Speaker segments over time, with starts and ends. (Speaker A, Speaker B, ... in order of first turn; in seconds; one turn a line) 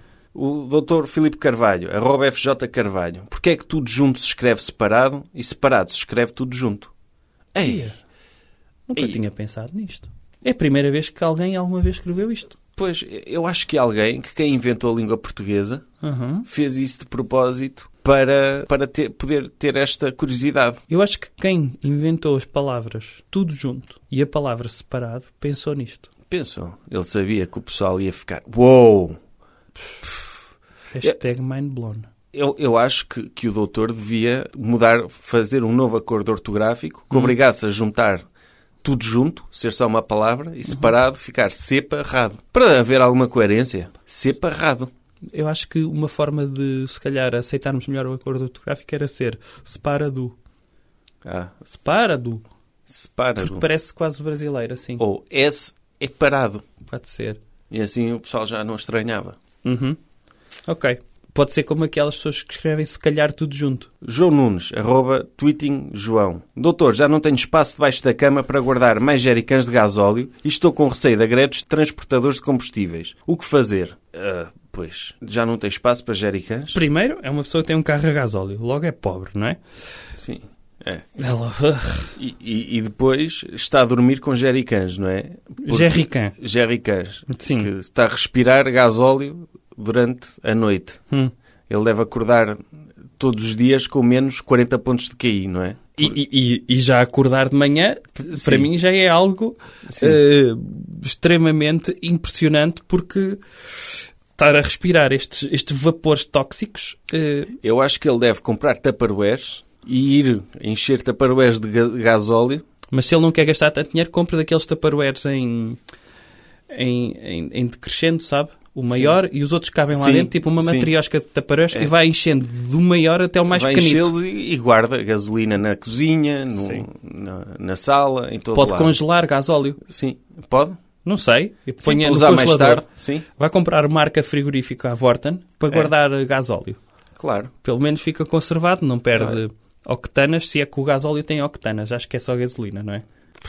Speaker A: 0.3-6.9
Speaker A: 7.5-7.9
Speaker B: 7.6-8.0
Speaker B: 8.9-12.6
Speaker A: 12.8-15.8
Speaker B: 16.0-16.5
Speaker A: 16.4-20.8
Speaker B: 20.9-26.1
Speaker A: 26.3-29.2
Speaker B: 30.9-32.1
Speaker A: 32.3-38.2
Speaker A: 38.8-44.9
Speaker B: 45.3-50.4
Speaker A: 51.2-51.5
Speaker B: 51.7-52.4
Speaker A: 52.9-53.6
Speaker B: 53.4-55.0
Speaker A: 55.0-56.6
Speaker B: 56.9-57.4
Speaker A: 57.7-59.4
Speaker B: 59.6-60.0
Speaker B: 60.7-63.9
Speaker A: 64.0-76.8
Speaker B: 76.7-79.6
Speaker A: 80.2-81.1
Speaker B: 81.2-82.2
Speaker A: 82.2-91.0
Speaker B: 85.6-86.3
Speaker B: 87.3-87.7
Speaker A: 91.7-92.6
Speaker A: 93.2-96.2
Speaker B: 96.0-107.5
Speaker A: 98.3-98.7
Speaker A: 99.9-100.2
Speaker A: 107.6-112.6
Speaker B: 112.9-115.8
Speaker B: 116.7-124.1
Speaker A: 119.9-120.9
Speaker A: 123.5-129.0
Speaker B: 126.6-126.8
Speaker B: 128.5-129.8
Speaker A: 129.8-130.8
Speaker B: 131.0-132.8
Speaker A: 131.8-133.2
Speaker B: 133.4-136.8
Speaker A: 137.2-137.5
Speaker B: 137.6-143.0